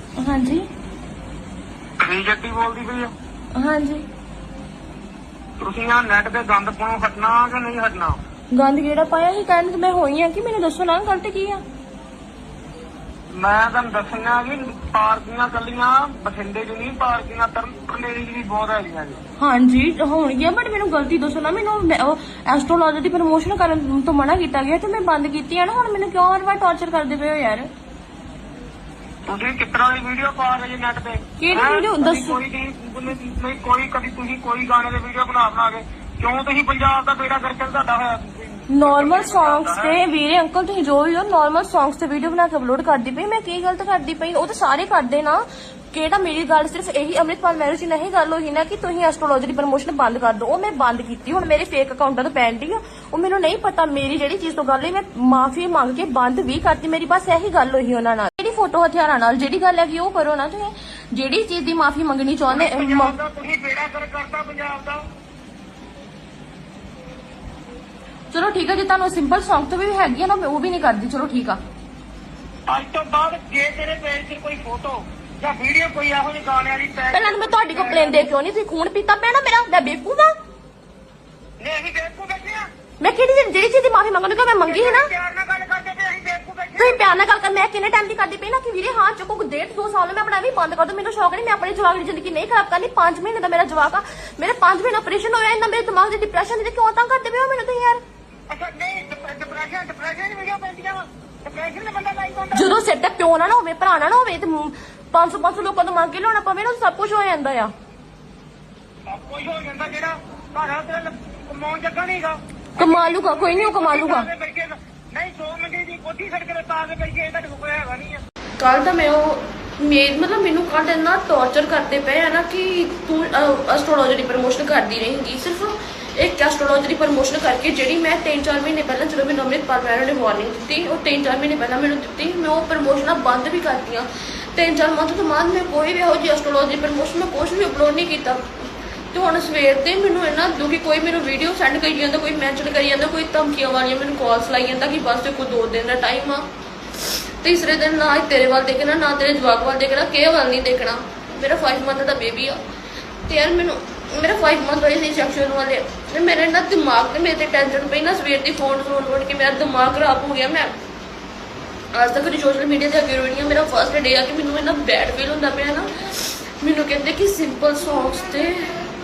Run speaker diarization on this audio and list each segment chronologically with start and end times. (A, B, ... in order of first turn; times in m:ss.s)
0:00.2-0:00.6 A
0:02.0-0:03.1 B
0:03.5-0:04.0 A
0:05.6-0:08.2 B
0:08.5-0:11.6 A
0:13.3-0:19.2 B
0:19.4-0:27.7 A
0:29.3-0:40.0 B
0:31.4-0:32.4 A
0:38.7-1:03.2 A
1:02.5-1:05.0 B
1:08.3-1:11.6 A
1:12.7-1:18.3 B
1:17.1-1:20.3 A
1:21.6-1:22.6 B
1:23.0-1:25.1 A
1:24.6-1:27.1 B
1:26.8-1:38.0 A
1:38.5-1:42.8 B
1:42.5-1:47.7 A
1:49.1-1:58.2 B
1:52.8-1:54.3 A
1:58.6-2:18.5 A
2:19.1-2:26.4 A
2:27.0-2:32.6 A
2:33.2-2:40.7 A
2:41.9-2:48.8 A